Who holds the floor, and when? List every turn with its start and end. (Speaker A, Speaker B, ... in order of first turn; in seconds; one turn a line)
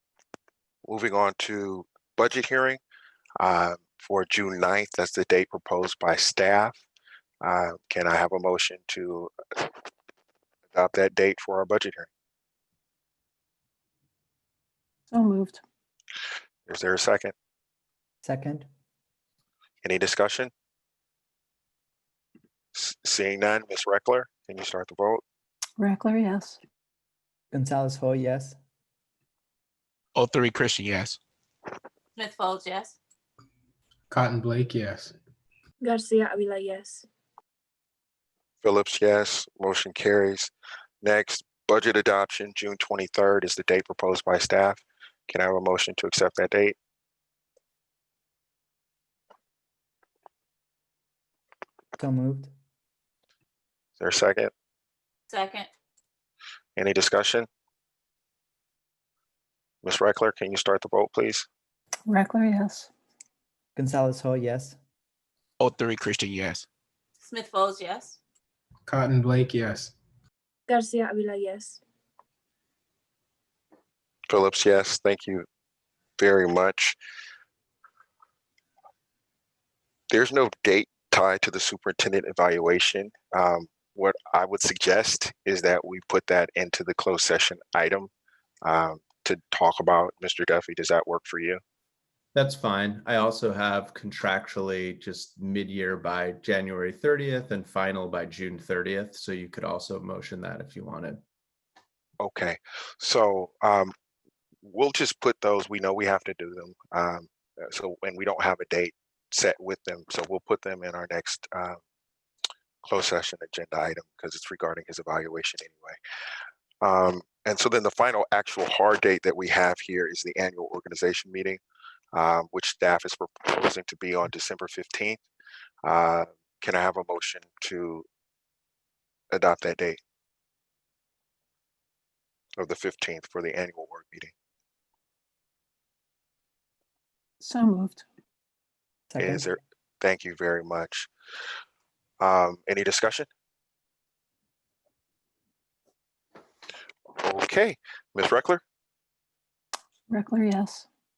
Speaker A: 0.8-2.8
Speaker A: 3.4-6.8
Speaker A: 7.4-9.7
Speaker A: 10.7-12.1
Speaker B: 15.1-15.6
Speaker A: 16.7-17.3
Speaker C: 18.2-18.7
Speaker A: 19.8-20.5
Speaker A: 22.7-25.2
Speaker B: 25.8-26.6
Speaker C: 27.5-28.6
Speaker D: 30.2-31.2
Speaker E: 32.2-33.0
Speaker F: 34.1-35.1
Speaker G: 35.8-37.1
Speaker A: 38.6-40.5
Speaker A: 41.0-46.8
Speaker C: 52.0-52.5
Speaker A: 54.0-54.5
Speaker E: 55.3-55.7
Speaker A: 56.8-57.5
Speaker A: 59.8-61.5
Speaker B: 62.1-62.9
Speaker C: 63.8-64.8
Speaker D: 65.6-66.7
Speaker E: 67.2-68.2
Speaker F: 68.9-69.9
Speaker G: 70.7-71.8
Speaker A: 74.3-75.5
Speaker A: 76.2-77.0
Speaker A: 80.1-88.1
Speaker A: 88.6-91.6
Speaker H: 92.3-101.2
Speaker A: 102.2-103.9
Speaker A: 104.7-111.8
Speaker A: 112.8-116.0
Speaker A: 116.8-121.6
Speaker A: 122.1-125.2
Speaker A: 125.8-128.1
Speaker A: 129.3-130.0
Speaker A: 132.6-134.3
Speaker B: 137.4-138.1
Speaker C: 139.1-139.5
Speaker A: 139.2-141.1
Speaker A: 142.2-143.3
Speaker A: 147.2-148.6
Speaker B: 150.1-150.9